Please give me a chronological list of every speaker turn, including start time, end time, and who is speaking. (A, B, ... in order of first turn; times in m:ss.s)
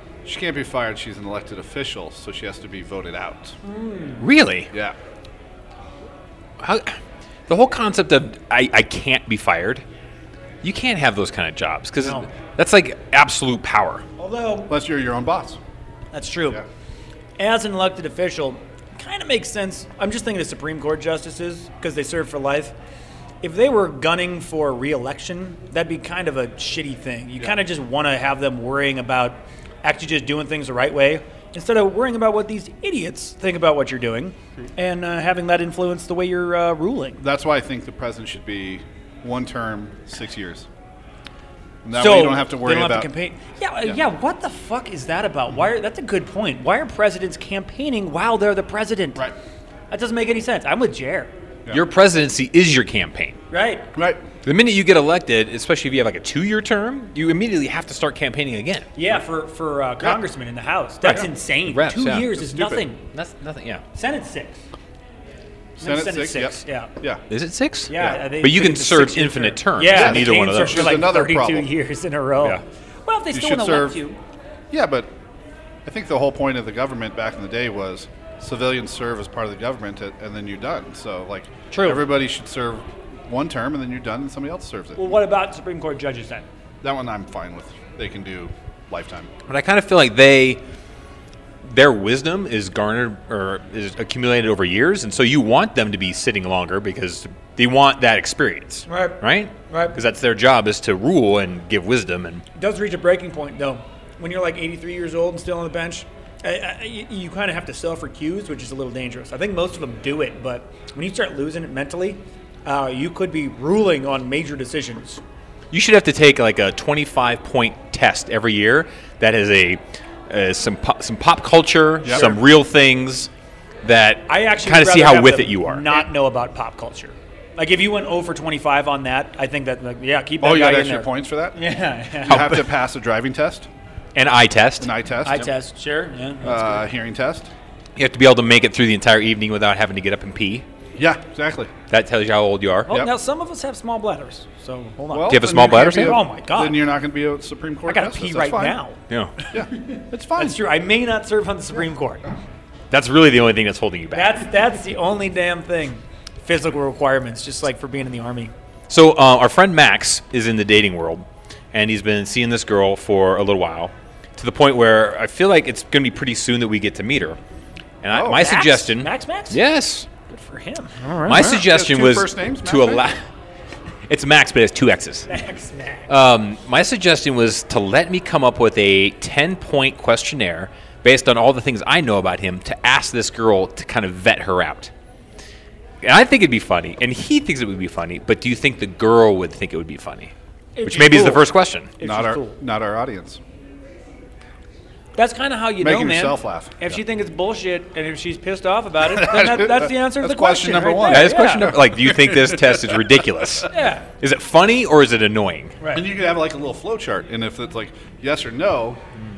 0:00.2-0:03.6 A
0:03.6-0:04.2 B
0:04.2-0:04.7 C
0:06.6-0:07.0 C
0:07.5-0:09.8 C
0:10.6-0:14.0 C
0:12.0-0:12.3 B
0:14.2-0:14.7 B
0:14.7-0:15.6 A
0:16.1-0:16.6 B
0:17.4-0:22.8 B
0:23.4-0:37.2 B
0:37.2-0:40.7 A
0:41.8-0:43.1 A
0:42.0-0:49.2 B
0:49.9-0:51.3 B
0:51.7-0:53.4 C
0:53.5-0:53.9 B
0:54.0-0:54.2 A
0:54.4-0:58.9 C
0:59.0-1:03.0 B
1:01.1-1:02.4 C
1:02.4-1:02.9 A
1:03.1-1:03.8 C
1:03.9-1:04.6 B
1:05.8-1:06.9 B
1:05.8-1:07.2 A
1:07.3-1:10.9 C
1:07.9-1:14.2 B
1:09.9-1:11.7 A
1:13.3-1:14.0 A
1:14.7-1:15.1 A
1:15.8-1:25.1 A
1:21.7-1:22.0 B
1:25.0-1:26.5 B
1:26.8-1:29.3 A
1:29.5-1:30.6 C
1:31.6-1:42.4 C
1:38.9-1:40.0 B
1:42.6-1:55.2 B
1:55.7-2:03.3 C
2:02.0-2:02.4 A
2:02.1-2:02.4 B
2:03.8-2:06.0 C
2:04.3-2:12.5 B
2:10.4-2:11.6 A
2:12.2-2:13.7 A
2:12.3-2:12.6 C
2:14.2-2:14.9 C
2:14.8-2:15.5 A
2:15.2-2:16.8 B
2:16.4-2:17.5 A
2:18.0-2:20.6 C
2:21.0-2:21.7 A
2:21.9-2:23.0 C
2:22.9-2:26.8 B
2:25.1-2:28.8 A
2:25.3-2:26.2 C
2:27.9-2:29.0 B
2:29.1-2:29.4 C
2:29.5-2:30.6 A
2:29.7-2:32.3 B
2:32.9-2:34.5 C
2:34.1-2:38.5 B
2:38.9-2:47.4 C
2:48.0-2:50.1 C
2:48.1-2:48.4 A
2:48.2-2:49.6 B
2:50.3-2:51.6 B
2:51.2-2:53.2 C
2:51.3-2:53.1 A
2:54.1-2:55.3 C
2:55.3-2:56.1 B
2:56.1-3:04.9 C
3:06.0-3:10.3 C
3:10.8-3:12.6 B
3:10.8-3:11.9 C
3:12.0-3:13.4 A
3:15.2-3:21.7 B
3:15.8-3:16.8 A
3:19.0-3:23.0 A
3:21.1-3:25.8 C
3:23.7-3:24.1 B
3:25.8-3:26.0 B
3:25.9-3:29.0 A